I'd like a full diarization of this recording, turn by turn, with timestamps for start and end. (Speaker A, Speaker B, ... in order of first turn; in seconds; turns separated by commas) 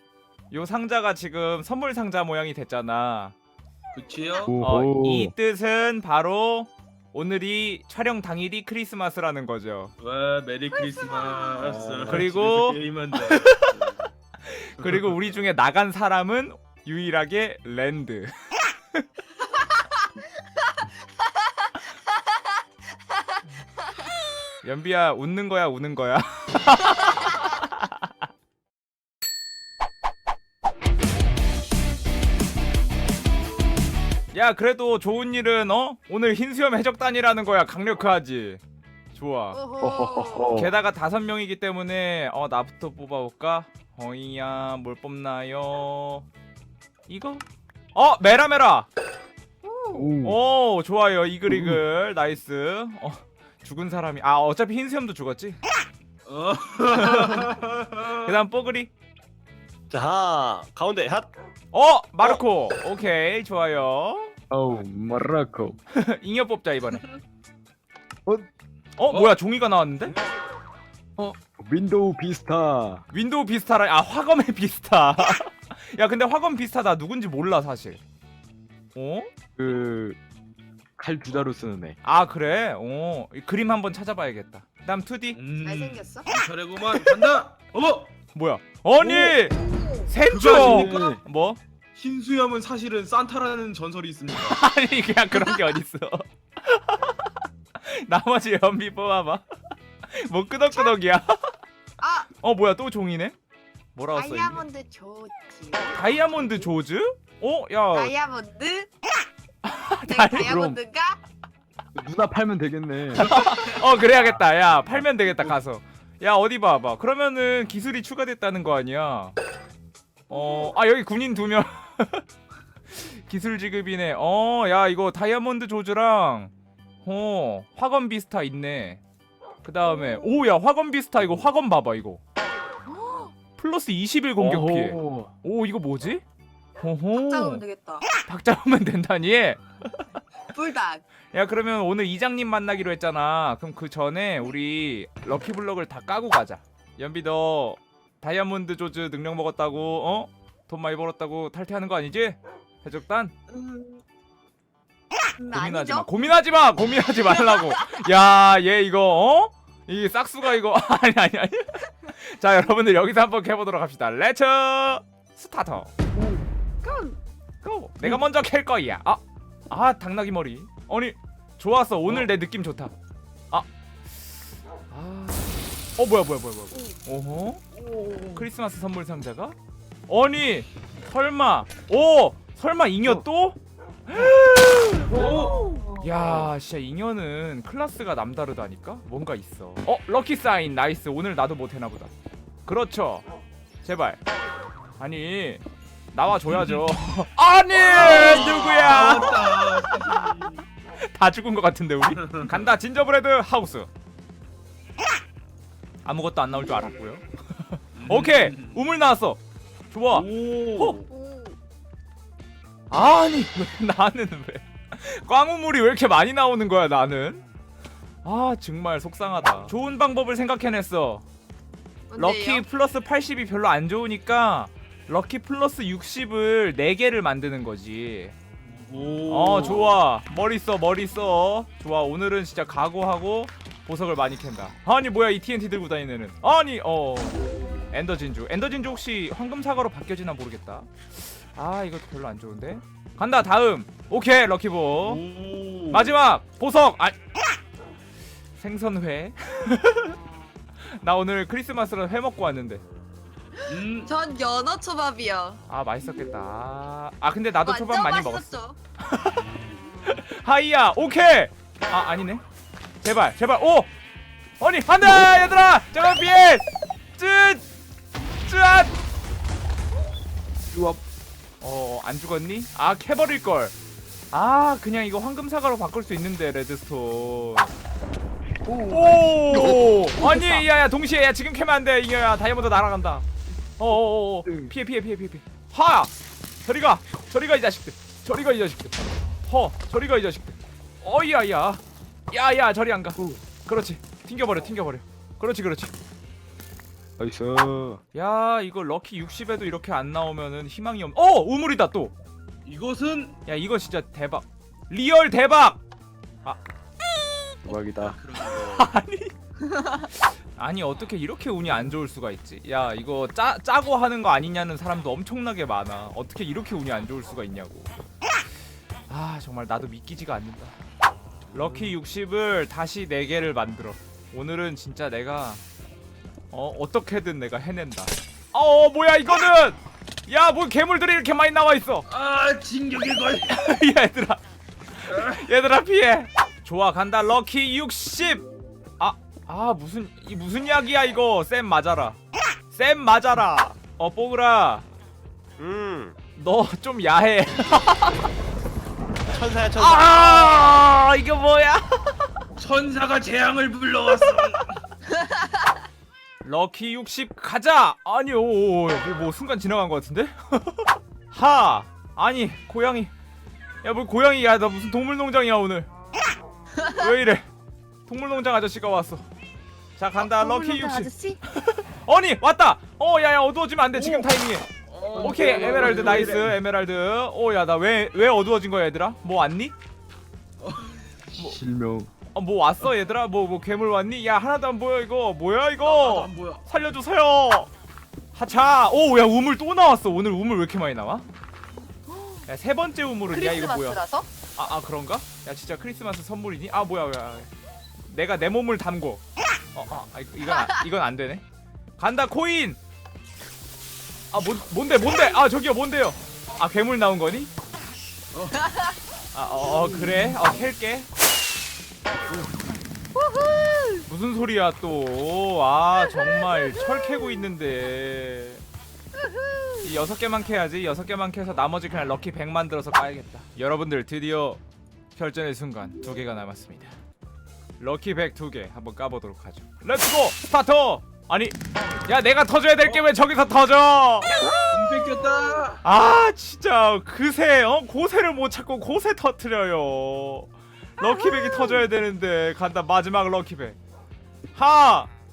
Speaker A: 0.5-3.4, Speaker B: 4.0-4.5, Speaker C: 4.5-5.3, Speaker A: 4.6-9.9, Speaker B: 10.0-14.1, Speaker D: 10.9-11.8, Speaker C: 11.7-12.3, Speaker A: 12.1-13.7, Speaker A: 14.4-19.1, Speaker B: 14.8-15.2, Speaker D: 19.5-22.4, Speaker A: 24.6-28.1, Speaker A: 34.3-38.6, Speaker A: 39.1-39.6, Speaker D: 39.5-40.5, Speaker C: 39.8-40.7, Speaker A: 40.5-46.3, Speaker A: 47.1-48.9, Speaker D: 49.6-50.1, Speaker C: 49.9-50.4, Speaker A: 50.2-55.6, Speaker C: 51.5-51.8, Speaker B: 56.3-58.3, Speaker A: 57.0-57.5, Speaker A: 58.2-58.9, Speaker E: 59.9-61.3, Speaker A: 61.7-64.3, Speaker C: 64.5-65.8, Speaker A: 65.9-67.0, Speaker A: 69.0-70.2, Speaker B: 69.1-69.4, Speaker C: 71.2-73.0, Speaker A: 73.1-78.0, Speaker A: 79.0-79.3, Speaker C: 79.6-80.2, Speaker C: 81.0-82.0, Speaker A: 82.0-85.4, Speaker B: 85.3-88.1, Speaker D: 85.6-86.3, Speaker A: 88.3-91.6, Speaker C: 89.0-89.3, Speaker D: 89.5-90.1, Speaker B: 90.3-91.2, Speaker C: 90.6-91.2, Speaker B: 92.0-94.6, Speaker A: 94.5-99.5, Speaker D: 95.3-95.7, Speaker A: 100.1-101.5, Speaker D: 100.7-101.0, Speaker D: 102.0-102.3, Speaker A: 102.4-103.3, Speaker A: 104.0-104.6, Speaker D: 104.1-106.0, Speaker A: 105.9-108.1, Speaker D: 107.9-108.9, Speaker A: 109.7-110.6, Speaker D: 110.0-111.2, Speaker C: 110.4-110.8, Speaker C: 112.0-113.3, Speaker A: 113.2-119.3, Speaker A: 120.3-122.2, Speaker A: 122.9-126.5, Speaker A: 127.0-129.0, Speaker A: 129.6-132.2, Speaker D: 132.9-133.3, Speaker A: 133.6-136.2, Speaker C: 134.4-135.3, Speaker A: 136.8-137.6, Speaker D: 137.1-138.1, Speaker A: 138.2-140.2, Speaker D: 140.5-141.0, Speaker A: 141.3-153.3, Speaker D: 153.5-154.0, Speaker D: 155.4-156.1, Speaker A: 155.5-165.9, Speaker D: 157.4-158.0, Speaker C: 166.2-166.4, Speaker D: 166.8-167.2, Speaker A: 167.6-172.9, Speaker A: 174.9-177.6, Speaker B: 177.9-178.4, Speaker A: 178.3-179.6, Speaker A: 180.1-185.3, Speaker D: 185.2-186.1, Speaker B: 185.2-185.6, Speaker A: 186.0-192.1, Speaker A: 192.7-193.2, Speaker A: 193.8-194.2, Speaker A: 195.0-200.4, Speaker B: 196.5-196.8, Speaker B: 197.8-200.6, Speaker D: 198.4-199.3, Speaker A: 201.0-203.9, Speaker B: 202.2-202.5, Speaker A: 206.1-211.0, Speaker B: 208.0-208.8, Speaker B: 210.1-211.1, Speaker D: 211.1-211.6, Speaker A: 212.9-217.4, Speaker A: 218.2-221.2, Speaker D: 222.1-222.7, Speaker A: 222.2-228.3, Speaker B: 228.6-229.9, Speaker A: 229.3-237.4, Speaker A: 237.9-245.2, Speaker B: 245.0-246.2, Speaker A: 245.9-247.2, Speaker A: 248.6-250.2, Speaker A: 251.0-252.8, Speaker D: 253.6-255.6, Speaker B: 253.7-254.1, Speaker A: 255.7-259.5, Speaker D: 257.6-258.8, Speaker A: 260.0-262.4, Speaker A: 263.0-263.9, Speaker A: 264.6-267.7, Speaker C: 265.1-265.4, Speaker A: 268.4-268.9, Speaker C: 270.7-271.0, Speaker A: 271.6-273.8, Speaker A: 274.3-277.7, Speaker C: 278.6-280.6, Speaker A: 278.9-283.2, Speaker A: 283.8-286.1, Speaker C: 284.4-284.7, Speaker A: 286.6-295.9, Speaker C: 297.2-298.0, Speaker A: 298.1-302.1, Speaker B: 302.6-303.4, Speaker A: 303.5-305.8, Speaker C: 307.7-308.2, Speaker B: 307.7-308.9, Speaker A: 308.4-309.4, Speaker A: 310.2-317.9, Speaker A: 319.1-320.8, Speaker A: 321.5-325.6, Speaker C: 321.6-321.9, Speaker A: 326.5-332.1, Speaker B: 332.1-333.6, Speaker A: 333.5-334.4, Speaker A: 335.0-338.4, Speaker B: 335.1-335.4, Speaker A: 339.0-342.2, Speaker A: 342.7-344.9, Speaker E: 345.6-346.2, Speaker A: 346.4-348.3, Speaker E: 349.3-350.7, Speaker A: 349.8-352.3, Speaker B: 352.6-354.8, Speaker D: 355.1-355.5, Speaker A: 356.4-363.1, Speaker A: 363.8-365.9, Speaker A: 366.9-367.5, Speaker A: 368.1-369.2, Speaker A: 370.0-374.7, Speaker D: 370.2-371.4, Speaker B: 373.9-374.3, Speaker B: 374.9-376.4, Speaker C: 375.2-376.5, Speaker A: 375.2-379.7, Speaker B: 380.6-381.0, Speaker C: 381.4-382.1, Speaker A: 382.3-387.7, Speaker B: 385.8-386.6, Speaker A: 388.4-391.3, Speaker D: 392.1-392.4, Speaker A: 392.5-394.0, Speaker D: 393.3-394.3, Speaker A: 394.6-397.5, Speaker A: 398.1-399.2, Speaker A: 399.7-401.4, Speaker D: 400.5-400.9, Speaker A: 402.0-402.8, Speaker A: 404.3-407.5, Speaker B: 408.3-408.6, Speaker D: 408.6-408.9, Speaker A: 409.3-411.1, Speaker D: 413.2-414.0, Speaker A: 414.1-418.6, Speaker D: 416.1-417.3, Speaker D: 419.2-419.8, Speaker A: 419.8-424.6, Speaker A: 425.1-426.9, Speaker A: 427.8-434.4, Speaker B: 434.7-435.8, Speaker A: 435.8-443.8, Speaker D: 441.0-441.8, Speaker A: 444.6-445.1